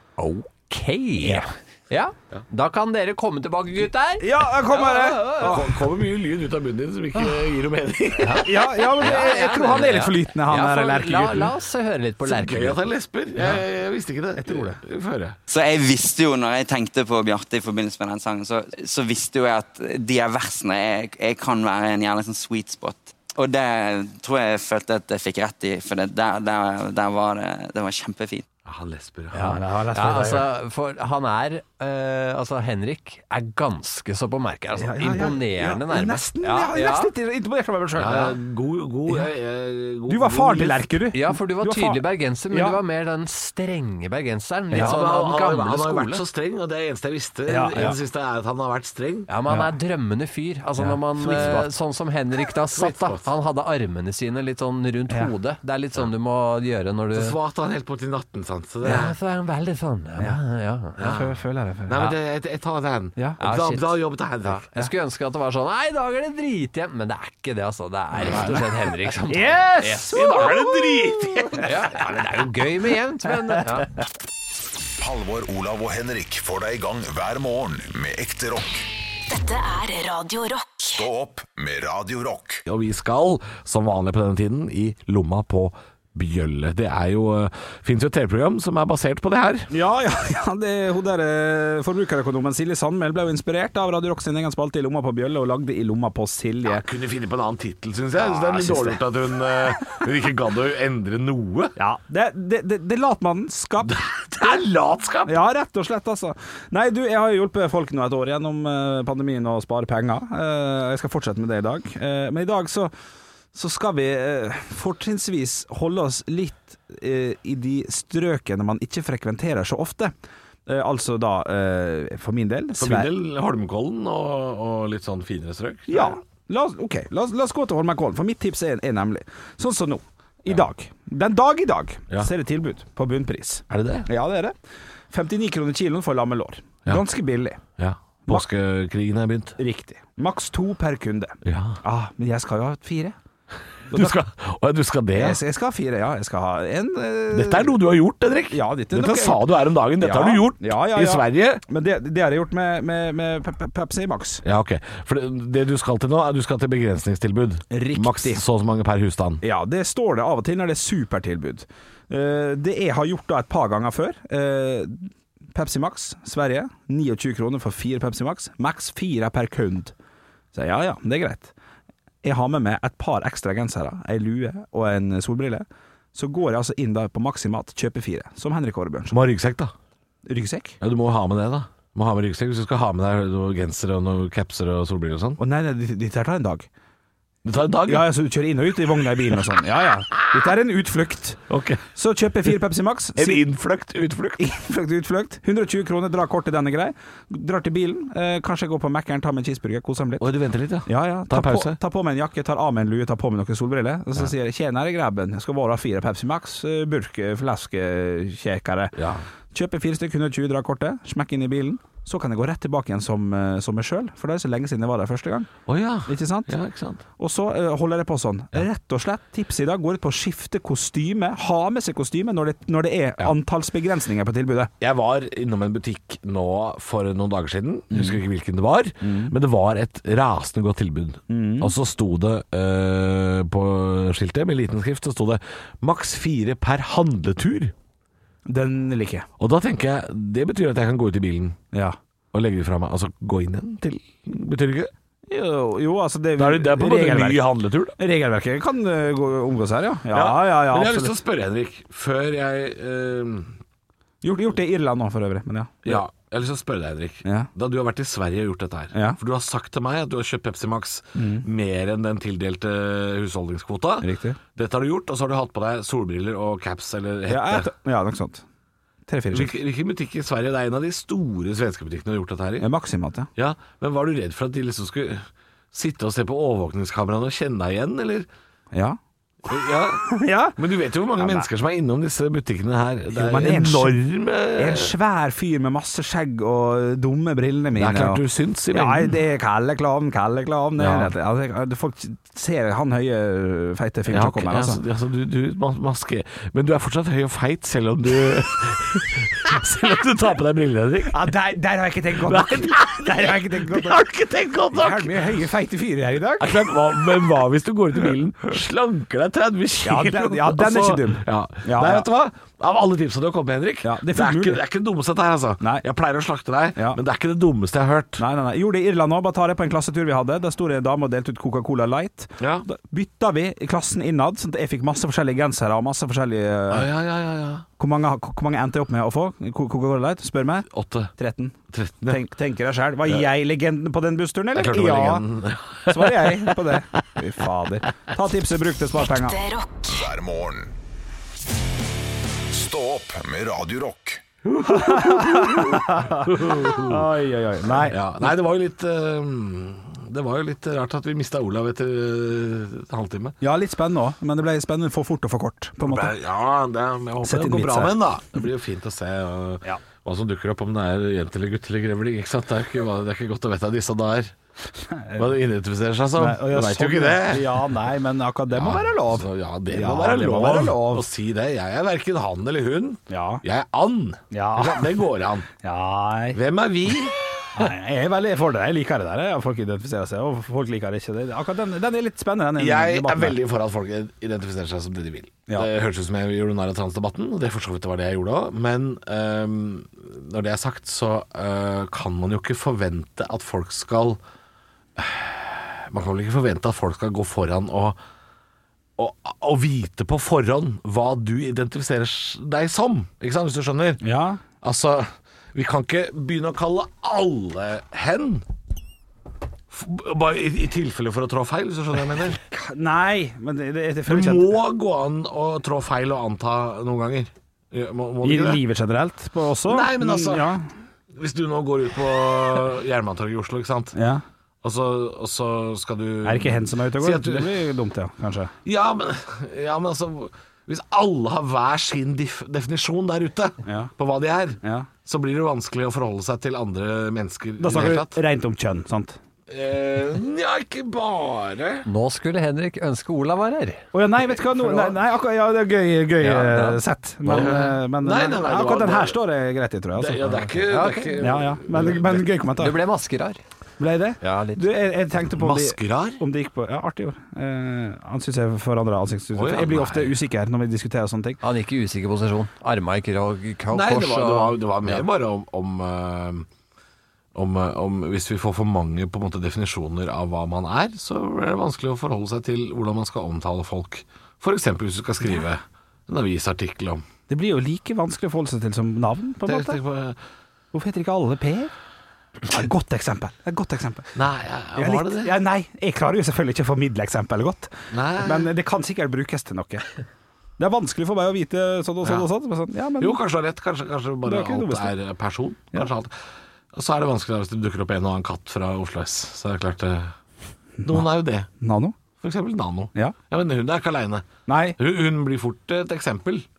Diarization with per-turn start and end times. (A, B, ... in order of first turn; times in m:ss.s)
0:00.2-0:05.6 A
0:01.2-0:01.4 B
0:04.2-0:05.6 B
0:05.4-0:08.7 C
0:08.2-0:12.8 A
0:08.3-0:11.5 B
0:12.2-0:15.4 C
0:14.4-0:14.8 B
0:15.5-0:28.4 D
0:28.6-0:29.6 C
0:29.3-0:37.1 A
0:29.4-0:30.4 B
0:30.1-0:30.4 C
0:34.8-0:38.4 B
0:38.0-0:40.9 C
0:40.1-0:42.8 B
0:41.1-0:46.2 A
0:44.7-0:49.3 C
0:47.5-0:48.0 B
0:49.3-0:57.4 A
0:49.4-0:49.7 B
0:50.8-0:51.7 B
0:52.7-0:53.3 C
0:57.1-0:59.1 C
0:58.8-1:01.1 A
1:01.0-1:01.3 C
1:01.0-1:02.1 B
1:01.9-1:04.7 C
1:03.3-1:10.6 A
1:08.1-1:08.7 C
1:09.3-1:12.2 B
1:10.1-1:11.7 C
1:11.6-1:13.9 A
1:15.0-1:18.8 E
1:19.3-1:21.1 F
1:20.9-1:22.6 E
1:22.6-1:29.7 C
1:29.7-1:36.8 B
1:36.6-1:41.7 C
1:38.2-1:39.0 B
1:41.8-1:44.6 B
1:43.8-1:45.4 C
1:45.2-1:52.9 B
1:53.5-2:00.1 B
2:00.7-2:03.1 B
2:02.8-2:06.2 C
2:05.9-2:14.5 B
2:13.7-2:14.1 C
2:15.1-2:17.6 B
2:17.8-2:19.6 C
2:19.6-2:23.2 B
2:21.4-2:21.8 C
2:23.9-2:25.4 C
2:25.1-2:27.8 B
2:27.3-2:31.6 C
2:28.5-2:29.5 B
2:30.0-2:34.4 B
2:34.4-2:39.4 C
2:37.7-2:38.4 B
2:39.4-2:49.9 B
2:50.5-2:51.5 B
2:52.2-2:59.2 B
2:59.1-2:59.7 C
3:00.3-3:00.8 B
3:00.8-3:05.4 C
3:05.4-3:06.7 B
3:07.4-3:08.1 C
3:07.9-3:11.4 B
3:11.5-3:11.8 C
3:11.9-3:13.4 B
3:13.2-3:14.5 C
3:14.4-3:20.3 B
3:20.2-3:21.8 C
3:20.8-3:28.9 B
3:29.0-3:29.2 C
3:29.5-3:35.5 B
3:35.7-3:37.0 C
3:36.0-3:36.5 B
3:37.2-3:44.7 B
3:44.8-3:57.7 C
3:47.9-3:48.2 B
3:49.0-3:49.3 B
3:51.3-3:51.7 B
3:58.5-3:59.3 B
3:59.4-4:01.6 C
4:02.3-4:04.9 C
4:05.3-4:11.2 B
4:06.4-4:08.0 C
4:10.1-4:13.6 C
4:14.2-4:16.0 B
4:15.8-4:27.7 C
4:21.1-4:21.4 B
4:24.0-4:24.4 B
4:27.3-4:28.4 B
4:29.1-4:29.5 B
4:29.3-4:32.7 C
4:32.6-4:33.3 B
4:33.4-4:38.3 C
4:38.7-4:39.0 B
4:39.5-4:44.9 C
4:40.0-4:40.6 B
4:41.2-4:41.5 B
4:43.1-4:44.0 B
4:44.6-4:54.8 B
4:47.8-4:49.2 C
4:50.8-4:51.1 C
4:54.1-5:01.3 C
5:01.1-5:04.0 B
5:02.2-5:05.1 C
5:04.7-5:06.7 B
5:06.4-5:18.2 C
5:09.8-5:12.1 B
5:13.8-5:14.6 B
5:18.2-5:26.9 B
5:22.4-5:22.7 C
5:26.7-5:27.6 C
5:27.8-5:35.2 B
5:30.7-5:31.1 C
5:31.7-5:32.2 C
5:34.5-5:36.6 C
5:35.8-5:39.4 B
5:39.0-5:40.1 F
5:39.9-5:40.7 E
5:42.5-5:44.2 E
5:44.4-5:47.1 C
5:44.6-5:48.3 B
5:47.7-5:53.4 C
5:53.4-5:56.1 B
5:55.8-6:04.3 C
5:57.2-5:58.0 B
6:04.9-6:05.3 B
6:05.2-6:07.6 C
6:06.2-6:11.1 B
6:08.5-6:15.5 C
6:13.1-6:13.4 B
6:14.3-6:14.9 B
6:15.6-6:16.4 B
6:16.3-6:17.7 C
6:17.6-6:23.4 B
6:22.6-6:34.2 C
6:35.0-6:38.0 C
6:39.0-6:44.0 C
6:44.0-6:44.4 B
6:44.6-6:48.4 C
6:49.7-6:52.4 C
6:52.5-6:54.5 B
6:54.1-6:58.6 C
6:58.2-7:00.6 B
6:59.7-7:00.5 C
7:01.1-7:04.0 C
7:03.9-7:04.2 B
7:04.6-7:07.6 C
7:06.2-7:08.5 B
7:08.6-7:18.2 C
7:13.6-7:13.9 B
7:14.6-7:14.9 B
7:17.6-7:19.2 B
7:19.5-7:21.8 C
7:21.8-7:23.8 A
7:23.9-7:30.4 B
7:24.4-7:25.0 A
7:26.2-7:26.8 A
7:27.2-7:29.2 C
7:29.9-7:32.2 C
7:30.5-7:31.2 A
7:31.2-7:32.8 B
7:32.5-7:33.4 A
7:33.8-7:41.4 B
7:34.2-7:34.6 A
7:35.3-7:36.2 C
7:39.3-7:40.2 C
7:41.4-7:45.0 A
7:43.7-7:46.5 C
7:47.3-7:57.0 C
7:57.3-7:59.8 B
7:59.4-8:00.2 C
8:00.7-8:01.7 B
8:02.5-8:04.1 B
8:04.1-8:05.3 C
8:04.8-8:09.9 B
8:07.9-8:08.5 C
8:10.6-8:13.2 B
8:13.0-8:16.1 C
8:14.2-8:14.9 B
8:16.7-8:20.1 C
8:20.8-8:21.0 B
8:20.8-8:21.5 C
8:21.6-8:22.0 B
8:22.2-8:26.4 C
8:24.5-8:24.8 B